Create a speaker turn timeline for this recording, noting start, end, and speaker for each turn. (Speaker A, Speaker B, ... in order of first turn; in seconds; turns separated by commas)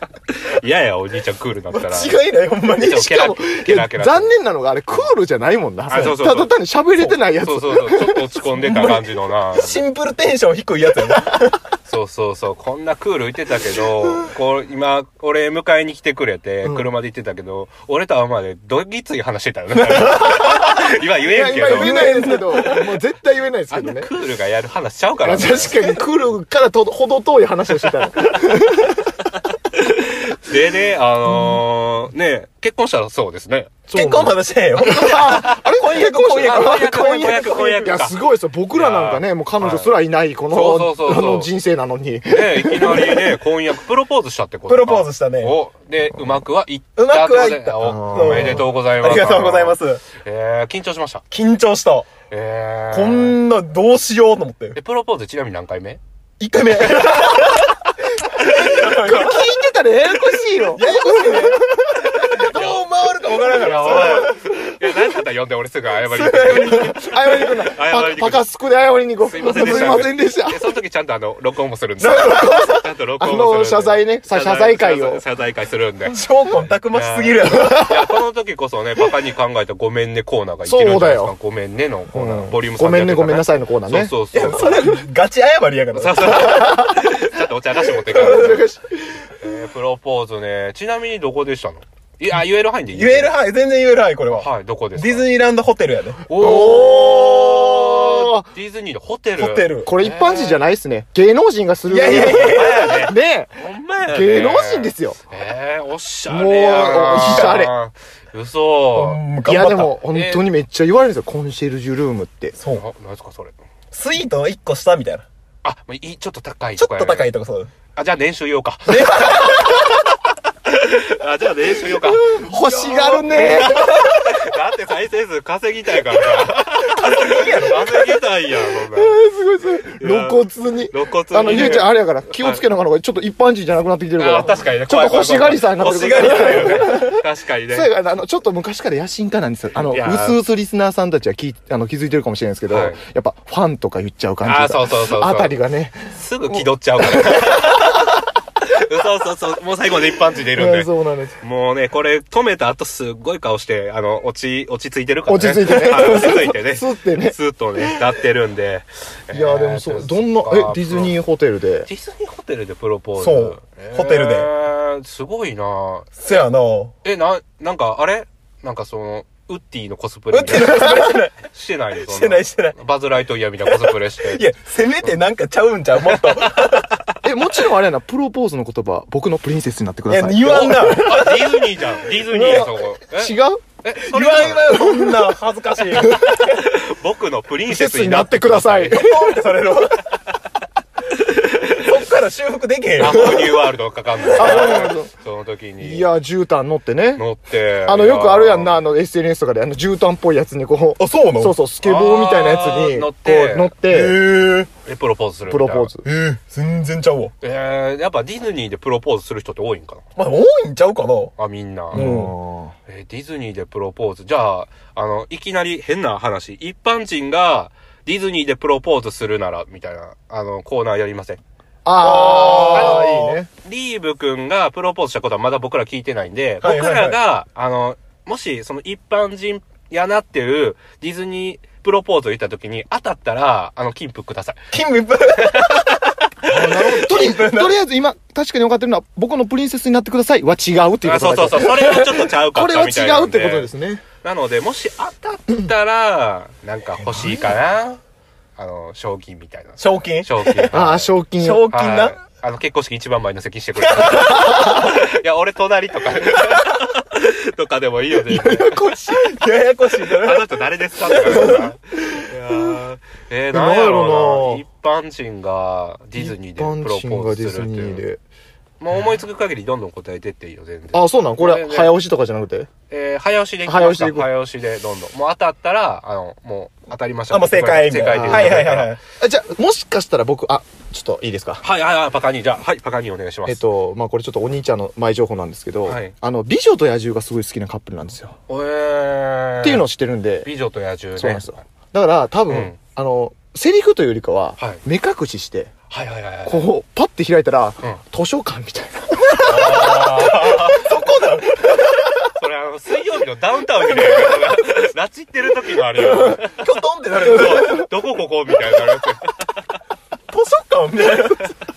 Speaker A: 0.3-2.2, Speaker B: 1.7-3.1, Speaker A: 2.8-4.3, Speaker C: 2.9-8.9, Speaker A: 5.9-9.8, Speaker B: 8.7-9.0, Speaker B: 9.6-11.6, Speaker A: 11.9-22.2, Speaker B: 19.9-20.8, Speaker C: 21.2-24.1, Speaker B: 21.6-22.9, Speaker A: 23.7-25.9, Speaker C: 25.2-29.1, Speaker A: 29.7-33.8, Speaker C: 33.9-43.4, Speaker B: 33.9-37.9, Speaker A: 34.8-35.6, Speaker A: 36.4-38.2, Speaker A: 38.7-39.9, Speaker A: 40.5-41.5, Speaker A: 42.3-51.2, Speaker B: 44.7-45.6, Speaker B: 47.0-50.0, Speaker C: 47.8-48.6, Speaker B: 51.3-52.1, Speaker A: 52.3-53.4, Speaker B: 52.9-54.8, Speaker A: 54.8-56.0, Speaker B: 56.4-64.4, Speaker C: 58.4-62.5, Speaker A: 62.5-62.8, Speaker A: 63.4-68.4, Speaker C: 63.9-64.3, Speaker B: 66.0-67.5, Speaker C: 66.8-70.6, Speaker A: 69.2-85.0, Speaker B: 69.6-69.9, Speaker B: 72.0-72.8, Speaker C: 72.0-75.2, Speaker B: 76.1-77.9, Speaker C: 77.5-78.0, Speaker C: 80.7-81.3, Speaker C: 82.1-85.0, Speaker B: 84.3-86.7, Speaker A: 85.9-88.7, Speaker C: 86.3-87.2, Speaker C: 88.1-89.3, Speaker B: 88.2-88.6, Speaker A: 89.4-93.3, Speaker B: 92.9-96.7, Speaker A: 94.3-95.2, Speaker A: 96.3-100.7, Speaker C: 96.4-98.5, Speaker B: 99.4-99.9, Speaker C: 99.8-105.2, Speaker B: 101.9-102.9, Speaker A: 102.1-109.2, Speaker C: 106.3-107.7, Speaker B: 107.3-107.5, Speaker B: 109.0-109.9, Speaker C: 109.4-112.5, Speaker A: 110.0-110.4, Speaker B: 112.6-112.8, Speaker A: 112.7-113.5, Speaker B: 113.9-115.2, Speaker A: 115.6-117.3, Speaker B: 116.8-117.7, Speaker A: 118.0-119.9, Speaker B: 118.9-119.9, Speaker A: 120.7-122.3, Speaker C: 122.0-124.1, Speaker B: 122.4-124.3, Speaker A: 123.3-129.2, Speaker B: 126.9-128.2, Speaker C: 128.9-148.0, Speaker A: 130.0-132.6, Speaker A: 134.2-137.9, Speaker B: 135.8-137.1, Speaker A: 139.8-140.4, Speaker A: 142.7-143.0, Speaker A: 144.4-145.6, Speaker A: 146.1-148.1, Speaker A: 148.6-150.9, Speaker C: 150.6-151.4, Speaker A: 151.4-161.2, Speaker C: 155.3-157.4, Speaker C: 159.3-161.9, Speaker A: 161.9-166.1, Speaker B: 163.2-164.5, Speaker B: 166.2-166.9, Speaker A: 167.0-174.4, Speaker B: 170.3-171.4, Speaker B: 172.0-172.8, Speaker B: 173.7-177.0, Speaker A: 176.1-176.7, Speaker C: 177.2-181.3, Speaker B: 180.1-181.6, Speaker A: 180.6-184.8, Speaker C: 182.3-183.6, Speaker B: 184.0-186.6, Speaker C: 184.7-185.3, Speaker C: 186.0-186.4, Speaker A: 186.4-189.1, Speaker C: 187.7-189.4, Speaker B: 188.9-190.1, Speaker A: 191.6-191.9, Speaker B: 191.7-193.6, Speaker A: 193.0-196.1, Speaker C: 193.1-193.4, Speaker B: 194.3-194.9, Speaker C: 194.4-195.1, Speaker C: 195.8-197.2, Speaker A: 197.2-198.8, Speaker C: 197.8-204.2, Speaker B: 201.0-201.6, Speaker A: 201.8-203.7, Speaker B: 203.9-204.7, Speaker A: 204.8-205.9, Speaker C: 205.5-206.1, Speaker B: 206.0-207.3, Speaker A: 207.4-210.0, Speaker B: 210.2-211.3, Speaker A: 211.4-212.1, Speaker B: 211.9-212.3, Speaker C: 211.9-212.7, Speaker A: 212.9-221.4, Speaker C: 221.8-223.5, Speaker B: 222.0-223.4, Speaker A: 222.7-234.7, Speaker B: 226.6-227.2, Speaker B: 234.7-235.9, Speaker A: 235.4-236.0, Speaker B: 236.5-237.8, Speaker C: 236.5-244.0, Speaker A: 241.0-243.7, Speaker A: 244.2-248.0, Speaker A: 248.6-251.1, Speaker B: 249.8-250.7, Speaker C: 250.7-251.7, Speaker B: 251.4-252.2, Speaker A: 251.7-258.8, Speaker B: 253.9-254.7, Speaker C: 254.3-254.9, Speaker C: 258.3-259.3, Speaker B: 258.9-261.7, Speaker A: 260.2-268.0, Speaker C: 263.5-264.6, Speaker C: 266.2-268.2, Speaker A: 268.8-271.9, Speaker C: 270.9-272.7, Speaker A: 272.9-278.9, Speaker C: 273.6-274.3, Speaker B: 277.3-279.0, Speaker C: 278.1-281.6, Speaker A: 281.6-283.6, Speaker C: 283.5-288.4, Speaker A: 285.9-286.1, Speaker A: 288.5-289.9, Speaker C: 289.6-290.5, Speaker A: 290.4-291.6, Speaker C: 291.2-295.7, Speaker A: 292.5-292.8, Speaker A: 295.9-296.7, Speaker C: 296.5-300.2, Speaker A: 299.4-300.9, Speaker B: 299.4-302.1, Speaker A: 302.3-306.6, Speaker B: 306.4-307.9, Speaker A: 307.2-309.6, Speaker B: 310.3-311.5